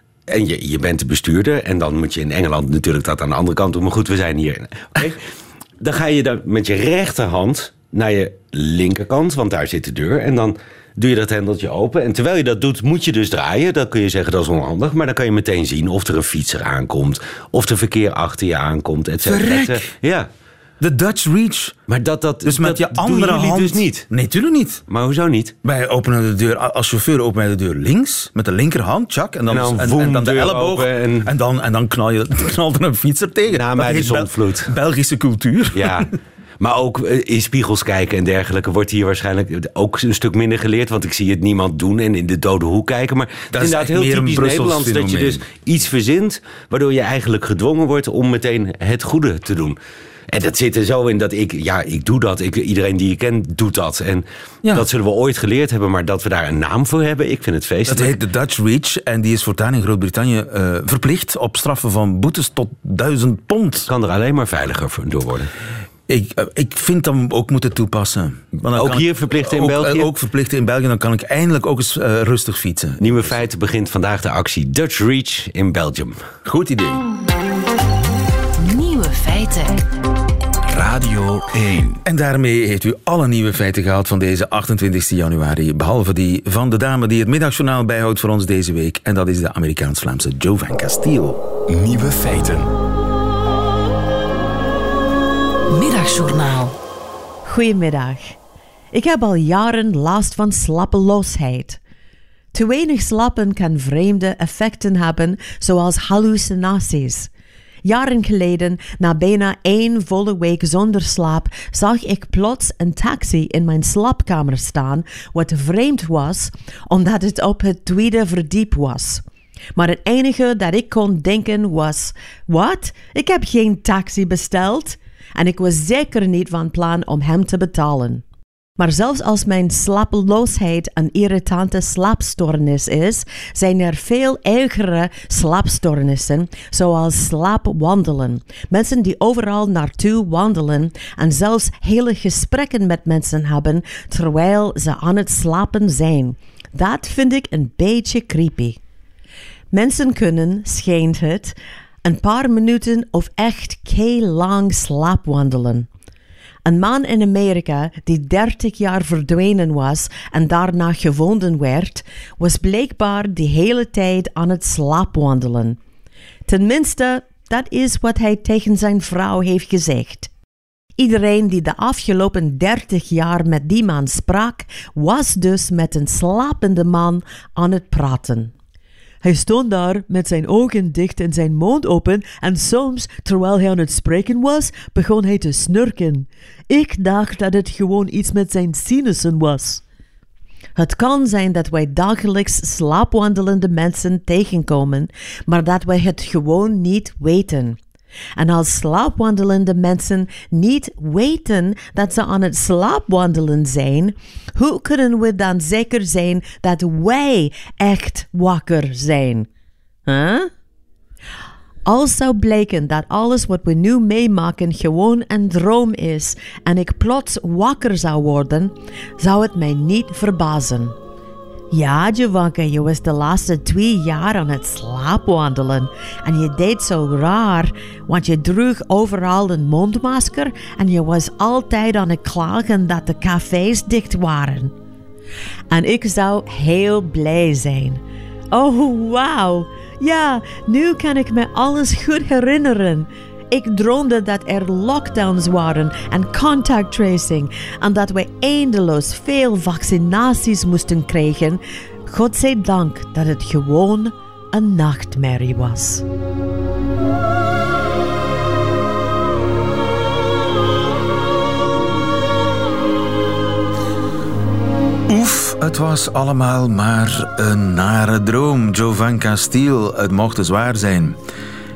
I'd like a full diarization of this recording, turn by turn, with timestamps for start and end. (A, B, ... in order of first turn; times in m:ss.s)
0:00.3-0:05.2 A
0:05.8-0:20.3 A
0:19.2-0:19.9 B
0:20.8-0:21.8 B
0:21.9-0:24.1 A
0:22.4-0:24.8 B
0:24.9-0:25.5 A
0:25.6-0:36.1 B
0:29.5-0:31.3 A
0:33.5-0:34.7 A
0:35.7-0:36.1 A
0:36.6-0:49.8 A
0:43.5-0:45.4 B
0:50.3-0:58.2 A
0:57.9-1:03.9 B
1:03.9-1:05.5 A
1:06.1-1:13.0 B
1:08.8-1:10.1 A
1:13.0-1:16.2 A
1:16.4-1:17.0 B
1:18.6-1:19.8 C
1:20.7-1:22.0 D
1:22.0-1:31.4 B
1:31.7-1:32.7 D
1:35.7-1:36.7 C
1:37.4-1:38.4 E
1:38.9-1:41.8 E
1:42.5-1:47.3 E
1:47.8-1:59.2 E
1:59.8-2:08.2 E
2:08.8-2:28.8 E
2:29.7-2:35.9 E
2:36.6-2:45.8 E
2:46.5-2:50.3 E
2:51.0-2:58.5 E
2:59.2-3:09.8 E
3:10.8-3:17.8 E
3:18.4-3:29.5 E
3:30.1-3:30.5 E
3:31.8-3:40.9 E
3:41.7-3:54.7 E
3:55.7-3:58.0 E
3:58.5-4:16.0 E
4:25.1-4:31.2 B